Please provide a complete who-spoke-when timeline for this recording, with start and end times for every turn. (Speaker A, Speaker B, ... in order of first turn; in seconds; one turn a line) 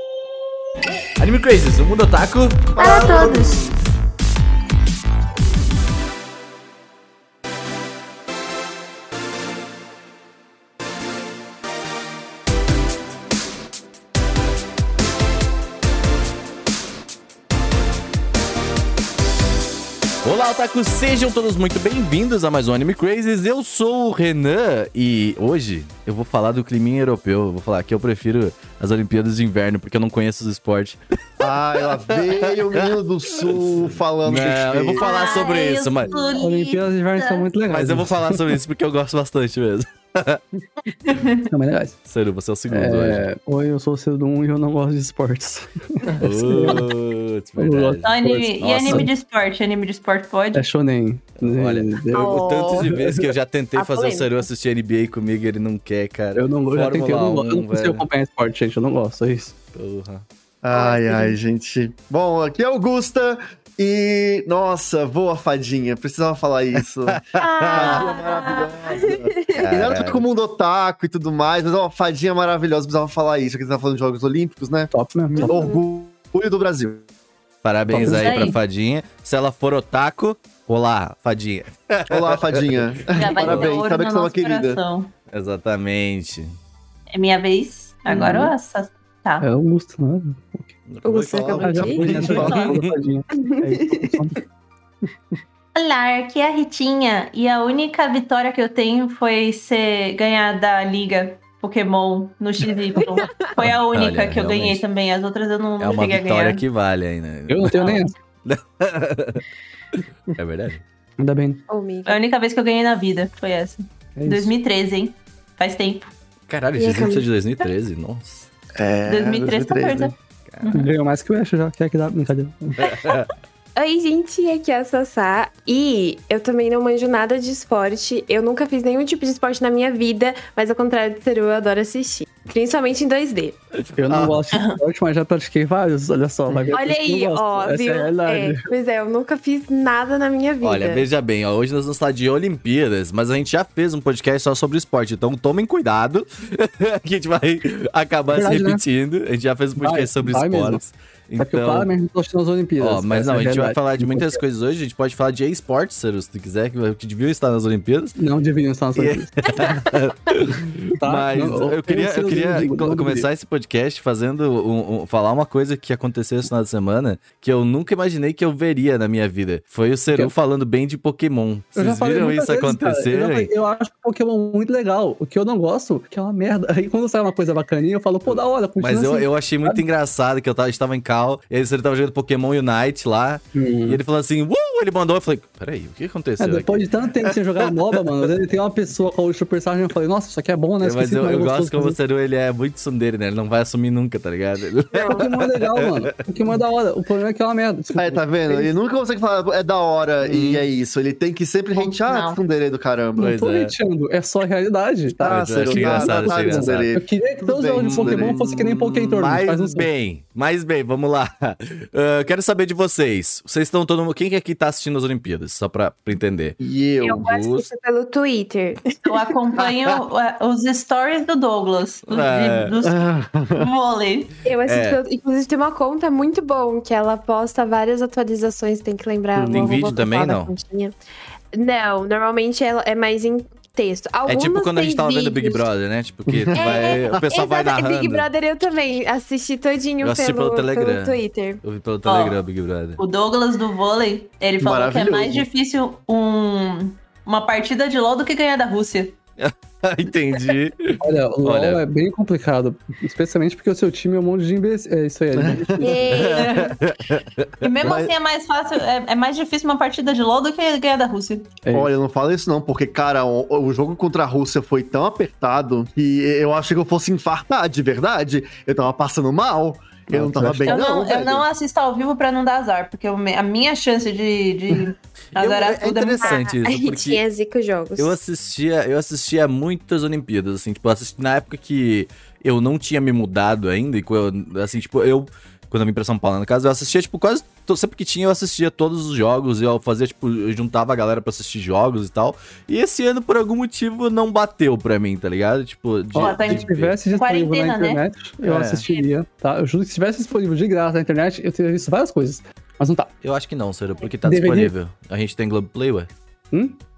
Speaker A: 1.2-3.5
Speaker B: 2.8-3.6
Speaker C: 2.8-3.6
Speaker A: 20.2-36.2
Speaker C: 31.4-35.1
Speaker D: 35.0-37.5
Speaker B: 36.1-36.4
Speaker E: 36.4-38.5
Speaker A: 37.7-40.4
Speaker D: 41.1-41.4
Speaker E: 41.5-42.0
Speaker A: 42.1-43.2
Speaker E: 42.7-46.8
Speaker A: 46.2-49.1
Speaker E: 47.6-49.1
Speaker D: 48.0-50.6
Speaker E: 50.5-53.2
Speaker A: 51.4-58.0
Speaker B: 52.1-52.9
Speaker B: 53.8-54.4
Speaker E: 56.3-59.5
Speaker A: 59.7-60.2
Speaker C: 60.6-77.0
Speaker B: 60.7-61.4
Speaker A: 67.1-70.2
Speaker B: 67.4-69.6
Speaker E: 74.9-75.5
Speaker B: 75.4-75.8
Speaker A: 77.6-83.7
Speaker D: 77.9-78.6
Speaker E: 78.0-78.5
Speaker C: 82.1-84.8
Speaker D: 83.2-85.1
Speaker A: 85.3-86.5
Speaker D: 87.1-89.5
Speaker E: 88.1-88.5
Speaker E: 89.4-90.7
Speaker A: 90.9-93.0
Speaker B: 91.0-92.6
Speaker C: 91.3-92.7
Speaker E: 91.6-94.4
Speaker D: 92.3-92.7
Speaker B: 93.4-94.1
Speaker D: 95.7-106.6
Speaker B: 103.0-103.5
Speaker A: 103.6-104.8
Speaker A: 105.8-110.8
Speaker E: 107.5-108.1
Speaker E: 111.2-111.6
Speaker B: 111.7-112.2
Speaker D: 112.0-116.1
Speaker E: 114.2-114.5
Speaker A: 116.5-118.5
Speaker B: 116.8-117.3
Speaker C: 118.8-120.1
Speaker D: 119.0-120.9
Speaker E: 120.7-122.8
Speaker A: 122.8-123.3
Speaker B: 123.8-133.6
Speaker E: 133.9-138.7
Speaker A: 134.1-134.4
Speaker D: 134.5-134.8
Speaker B: 136.7-141.1
Speaker A: 140.6-151.9
Speaker E: 148.3-148.8
Speaker E: 149.8-150.8
Speaker E: 151.4-154.4
Speaker A: 152.8-158.2
Speaker E: 158.2-159.5
Speaker A: 158.9-173.5
Speaker E: 161.0-163.3
Speaker E: 171.8-179.8
Speaker A: 178.8-187.3
Speaker E: 183.5-184.0
Speaker E: 186.4-192.0
Speaker A: 190.8-196.2
Speaker E: 195.0-198.7
Speaker C: 197.9-203.3
Speaker A: 200.2-200.6
Speaker D: 201.8-202.4
Speaker E: 203.2-209.9
Speaker A: 203.2-203.7
Speaker A: 205.2-206.9
Speaker C: 205.2-208.3
Speaker A: 207.8-216.6
Speaker C: 216.6-217.2
Speaker B: 217.0-219.2
Speaker A: 217.1-217.7
Speaker D: 219.0-224.3
Speaker A: 219.6-219.9
Speaker A: 222.1-222.7
Speaker C: 222.8-223.7
Speaker B: 224.4-230.9
Speaker A: 224.6-225.0
Speaker E: 229.3-230.0
Speaker A: 229.5-230.5
Speaker B: 231.5-235.6
Speaker A: 234.2-238.3
Speaker C: 236.3-236.9
Speaker B: 236.5-241.6
Speaker A: 240.0-243.0
Speaker D: 242.1-242.4
Speaker D: 243.0-249.2
Speaker C: 244.6-245.4
Speaker A: 249.4-251.8
Speaker E: 251.0-256.0
Speaker C: 255.3-255.8
Speaker B: 255.8-256.6
Speaker A: 256.1-257.7
Speaker D: 256.3-256.8
Speaker D: 257.6-261.5
Speaker C: 257.8-258.1
Speaker E: 261.6-261.9
Speaker C: 261.7-271.4
Speaker E: 270.1-270.8
Speaker D: 270.6-276.4
Speaker C: 275.4-276.3
Speaker A: 275.6-277.2
Speaker B: 276.2-278.1
Speaker A: 278.0-296.9
Speaker D: 296.1-298.0
Speaker E: 296.1-303.1
Speaker A: 298.4-298.8
Speaker A: 303.2-306.1
Speaker E: 304.2-304.7
Speaker E: 306.5-306.8